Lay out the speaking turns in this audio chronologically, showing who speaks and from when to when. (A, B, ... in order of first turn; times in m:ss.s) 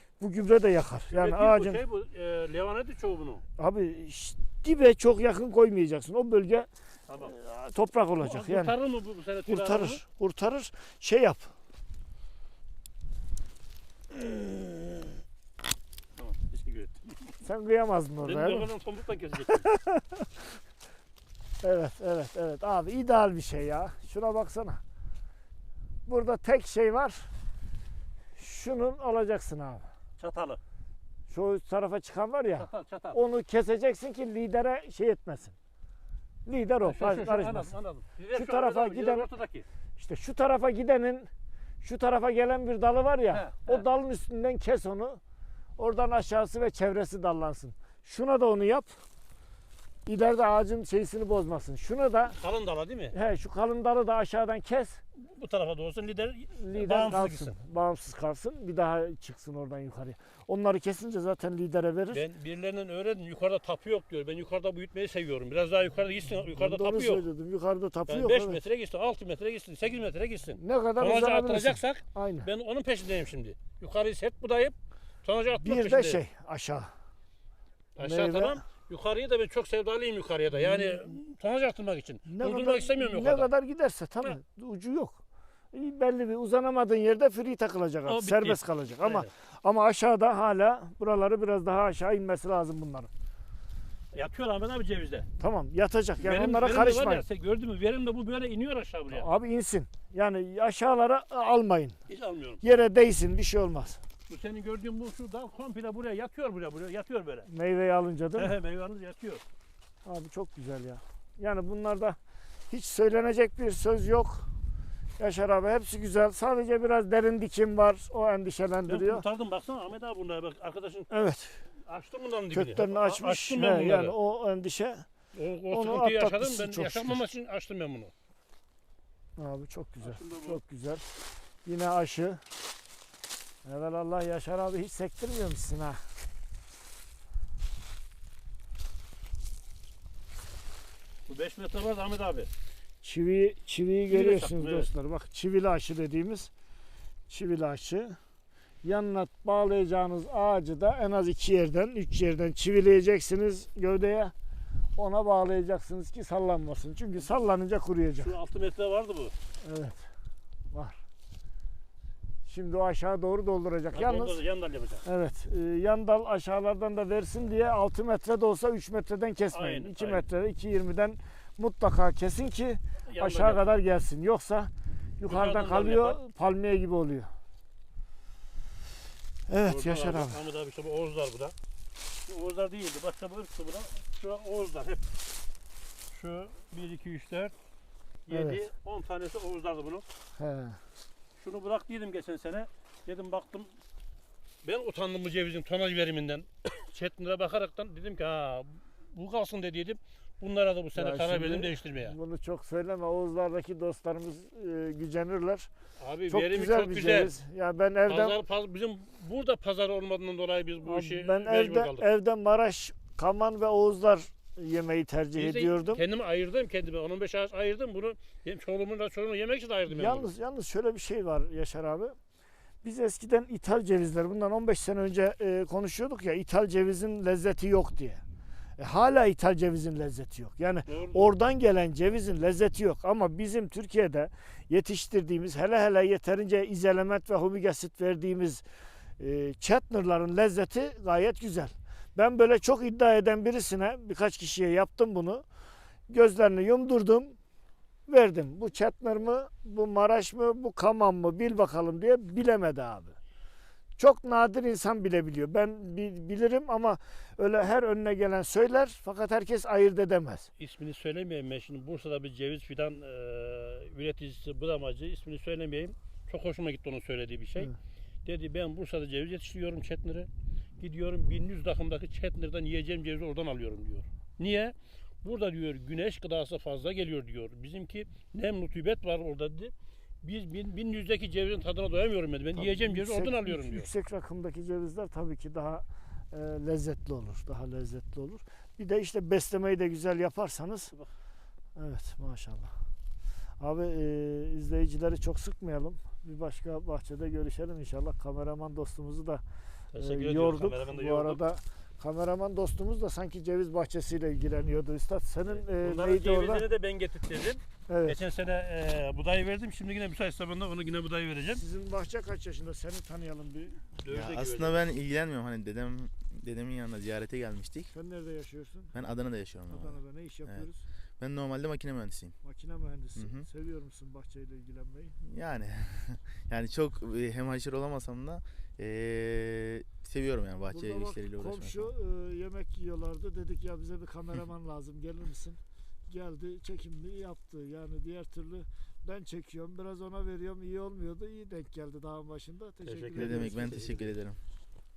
0:00.2-0:01.8 A
0:01.1-0:03.4 B
0:03.6-0:08.7 A
0:08.2-0:10.0 B
0:09.5-0:11.5 A
0:16.2-0:17.4 B
0:17.4-0:18.7 A
0:18.2-0:19.7 B
0:19.5-0:20.3 A
0:21.6-0:24.8 A
0:26.1-0:27.3 A
0:28.4-0:29.9 A
0:30.2-0:30.6 B
0:31.3-0:35.6 A
0:32.6-0:33.2 B
0:36.5-0:37.7 A
0:36.8-0:39.7 B
0:38.3-0:39.3 A
0:40.0-0:41.3 A
0:41.8-0:45.2 A
0:43.3-0:43.8 B
0:45.8-0:48.9 A
0:50.1-0:52.4 A
0:52.4-0:53.2 B
0:53.1-0:55.0 A
0:55.2-0:57.6 B
0:56.6-1:02.2 A
1:02.1-1:07.2 B
1:06.5-1:08.6 A
1:08.1-1:16.2 B
1:10.6-1:12.5 A
1:15.6-1:16.9 A
1:18.0-1:23.5 B
1:18.0-1:18.6 A
1:20.5-1:21.2 A
1:22.3-1:25.2 A
1:25.7-1:33.1 A
1:28.1-1:29.3 B
1:34.1-1:35.3 B
1:35.4-1:37.2 A
1:36.2-1:39.3 B
1:39.1-1:42.0 A
1:42.1-1:42.6 B
1:42.6-1:44.0 A
1:44.3-1:47.5 B
1:47.5-1:48.6 A
1:48.4-1:49.4 B
1:50.0-1:52.2 A
1:52.7-1:54.5 A
1:55.2-1:59.2 A
1:58.9-2:01.1 B
2:01.1-2:01.6 A
2:01.9-2:04.2 B
2:02.5-2:05.1 A
2:05.3-2:08.1 B
2:05.7-2:07.2 A
2:09.4-2:11.1 A
2:10.0-2:10.6 B
2:11.6-2:12.4 A
2:13.6-2:16.0 A
2:21.3-2:22.5 B
2:23.0-2:26.5 A
2:24.1-2:24.9 B
2:27.3-2:28.2 A
2:28.8-2:34.3 A
2:35.0-2:38.3 A
2:38.2-2:39.3 B
2:39.6-2:40.1 A
2:40.7-2:41.0 A
2:42.5-2:44.4 A
2:43.9-2:45.0 B
2:45.0-2:57.3 A
2:49.5-2:50.2 B
2:53.1-2:53.7 B
2:55.3-2:56.2 B
2:59.5-3:00.4 A
2:59.6-3:01.6 B
3:02.2-3:05.1 B
3:06.1-3:07.5 B
3:08.3-3:10.0 B
3:08.3-3:08.6 A
3:10.4-3:10.8 A
3:11.4-3:13.7 B
3:14.6-3:22.2 B
3:20.9-3:25.7 A
3:26.0-3:27.3 B
3:26.3-3:28.4 A
3:28.1-3:32.1 B
3:30.8-3:36.0 A
3:35.4-3:40.3 B
3:39.9-3:42.2 A
3:42.8-3:48.2 A
3:48.8-3:58.6 A
3:50.9-3:51.4 B
3:59.2-4:05.4 A
4:06.1-4:07.4 A
4:08.1-4:13.2 A
4:14.0-4:20.5 A
4:20.6-4:27.7 B
4:28.2-4:43.9 B
4:42.5-4:50.9 A
4:51.8-4:52.7 A
4:53.6-4:59.4 A
4:59.9-5:01.4 B
5:00.0-5:06.7 A
5:05.5-5:11.6 B
5:07.9-5:08.2 A
5:11.5-5:13.9 A
5:14.0-5:14.9 B
5:14.1-5:17.9 C
5:17.9-5:19.0 A
5:18.9-5:20.7 C
5:19.7-5:20.8 A
5:21.2-5:22.4 C
5:22.4-5:25.2 A
5:23.2-5:23.5 C
5:25.2-5:31.9 C
5:30.7-5:44.1 A
5:42.8-5:44.0 B
5:43.2-5:44.4 C